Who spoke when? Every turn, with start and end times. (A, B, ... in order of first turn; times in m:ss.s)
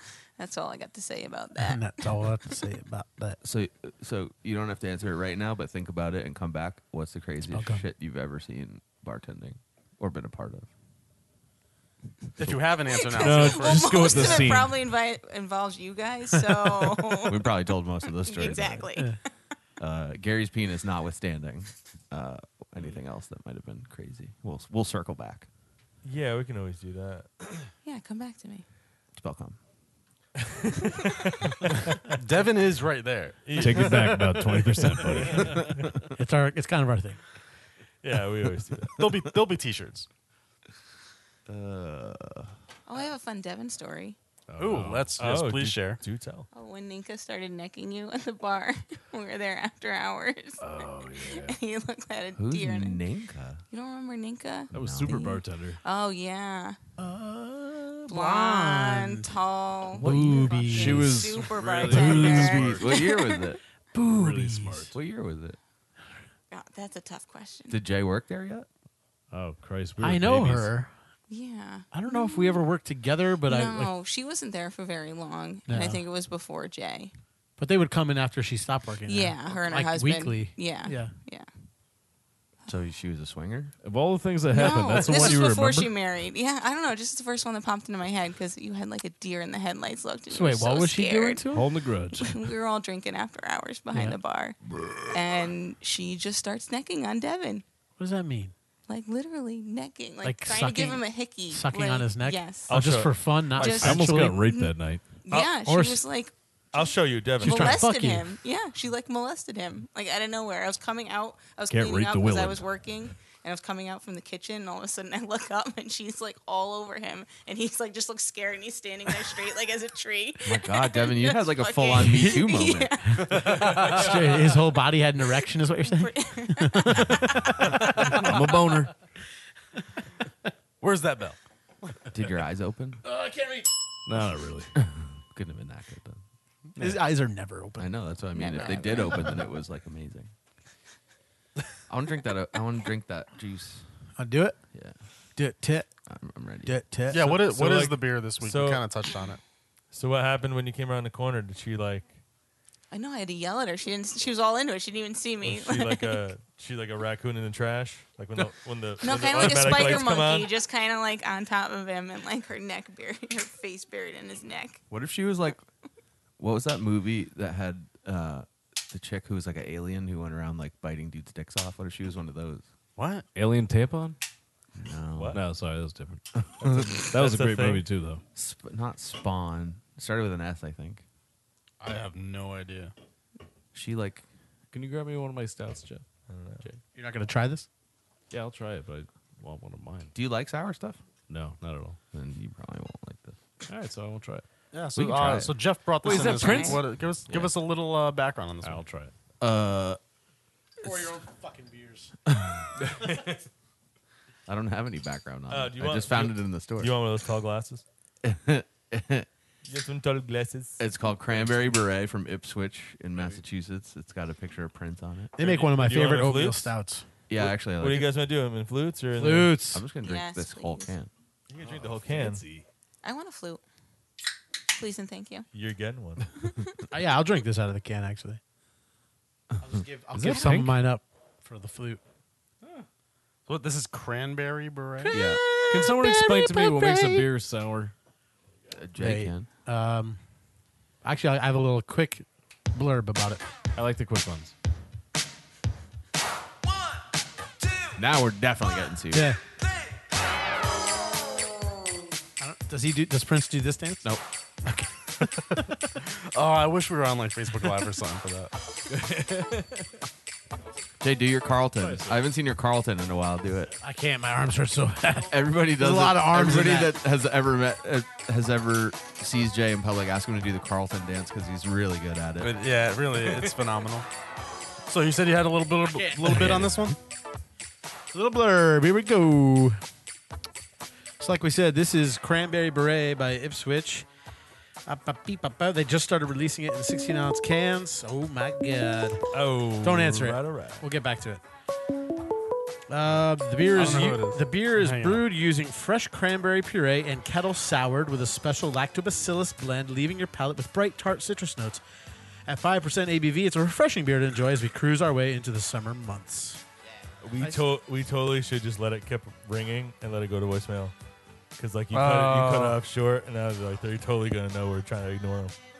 0:00.4-0:02.0 A
0:01.6-0:03.4 B
0:03.4-0:10.7 C
0:07.5-0:07.9 B
0:12.4-0:14.6 D
0:12.9-0:17.5 A
0:13.2-0:14.8 E
0:17.2-0:18.9 C
0:18.2-0:19.3 A
0:19.8-0:25.5 C
0:26.0-0:27.3 F
0:27.8-0:28.6 A
0:29.1-0:29.6 C
0:30.4-0:32.0 F
0:32.1-0:35.2 D
0:33.4-0:35.8 F
0:33.6-0:35.6 E
0:35.4-0:36.0 C
0:36.2-0:37.2 B
0:38.0-0:39.0 F
0:39.0-0:40.1 D
0:41.4-0:42.5 C
0:42.9-0:44.2 A
0:44.5-0:45.2 E
0:44.6-0:46.0 D
0:45.2-0:46.5 F
0:46.5-0:53.0 A
0:50.6-0:51.6 E
0:52.4-0:53.6 C
0:53.7-0:56.8 A
0:54.7-0:55.8 E
0:54.7-0:55.2 C
0:57.0-0:59.3 B
0:58.1-1:03.6 A
1:00.0-1:02.4 B
1:00.0-1:03.0 E
1:02.0-1:03.6 C
1:03.9-1:04.9 B
1:04.1-1:04.9 E
1:04.9-1:05.6 C
1:06.5-1:07.8 A
1:07.7-1:08.7 C
1:09.3-1:10.7 E
1:10.0-1:10.9 B
1:11.3-1:12.6 A
1:11.9-1:13.9 B
1:13.4-1:17.1 A
1:15.7-1:16.0 B
1:17.6-1:21.1 B
1:19.1-1:21.5 A
1:22.7-1:23.7 C
1:23.8-1:25.9 E
1:24.5-1:31.4 A
1:30.3-1:31.7 B
1:31.5-1:32.4 E
1:32.2-1:34.6 A
1:33.9-1:34.2 B
1:35.1-1:37.6 A
1:38.0-1:38.5 B
1:38.9-1:42.7 A
1:40.2-1:44.4 B
1:42.7-1:43.4 F
1:43.6-1:45.2 E
1:43.6-2:03.9 A
1:45.6-1:46.0 B
1:46.7-1:47.8 F
1:47.4-1:48.3 B
1:51.7-1:52.6 E
2:00.4-2:03.2 C
2:03.1-2:08.3 B
2:03.5-2:04.1 D
2:05.8-2:07.0 A
2:07.7-2:08.9 E
2:10.8-2:11.4 D
2:12.1-2:13.0 C
2:14.0-2:14.8 E
2:14.8-2:16.2 C
2:16.8-2:17.9 B
2:17.8-2:20.3 C
2:18.3-2:19.4 A
2:21.9-2:23.8 C
2:24.2-2:24.6 B
2:24.7-2:25.0 C
2:25.4-2:25.9 B
2:26.1-2:26.8 C
2:26.6-2:27.3 B
2:27.1-2:29.4 D
2:27.2-2:28.8 F
2:29.9-2:32.2 F
2:32.9-2:36.2 A
2:35.4-2:40.5 F
2:39.0-2:44.8 A
2:44.9-2:45.6 C
2:46.4-2:52.6 C
2:53.0-2:53.3 D
2:53.3-2:54.2 E
2:54.8-2:55.4 C
2:55.2-2:55.4 F
2:55.3-2:58.2 E
2:56.4-2:57.0 C
2:56.6-2:57.9 F
2:58.3-3:01.0 C
3:01.8-3:02.9 D
3:03.7-3:04.2 C
3:04.7-3:06.0 E
3:06.3-3:06.6 F
3:06.9-3:07.7 B
3:08.3-3:10.1 E
3:10.1-3:11.0 C
3:11.3-3:12.0 E
3:12.1-3:13.4 C
3:13.7-3:14.4 E
3:14.7-3:18.8 D
3:14.9-3:15.6 C
3:16.0-3:16.8 A
3:16.1-3:16.7 B
3:16.2-3:16.8 E
3:18.6-3:19.1 E
3:19.4-3:20.0 C
3:20.8-3:22.1 B
3:22.3-3:22.6 C
3:24.5-3:27.0 C
3:25.5-3:27.8 F
3:28.2-3:29.3 C
3:29.6-3:31.7 F
3:30.8-3:35.3 C
3:35.4-3:36.7 F
3:35.4-3:37.0 B
3:37.3-3:38.1 C
3:37.3-3:39.7 F
3:39.1-3:39.8 B
3:39.7-3:41.1 C
3:40.0-3:40.9 A
3:41.5-3:42.4 F
3:41.6-3:42.6 E
3:43.0-3:43.6 A
3:44.7-3:45.5 A
3:45.5-3:46.3 F
3:46.9-3:48.4 B
3:49.6-3:52.0 B
3:50.1-3:50.8 E
3:53.5-3:55.2 D
3:55.1-3:55.4 C
3:55.4-3:57.2 B
3:55.7-3:57.9 E
3:58.7-3:59.5 C
3:59.0-4:00.2 B
4:01.0-4:03.4 B
4:03.8-4:04.5 E
4:07.9-4:09.3 C
4:09.1-4:09.4 B
4:12.4-4:14.1 B
4:14.6-4:15.8 B
4:16.0-4:18.5 D
4:18.9-4:19.9 E
4:21.0-4:23.7 C
4:21.8-4:22.3 E
4:23.8-4:27.0 B
4:25.3-4:32.6 C
4:32.4-4:34.1 D
4:34.9-4:37.0 D
4:35.9-4:36.6 B
4:38.1-4:39.8 B
4:41.2-4:44.1 B
4:44.8-4:49.3 B
4:49.3-4:50.8 F
4:49.8-4:51.4 B
4:52.9-5:01.8 B
4:53.7-4:55.2 D
5:02.5-5:06.6 B
5:07.2-5:10.9 F
5:11.6-5:15.5 F
5:11.9-5:12.8 D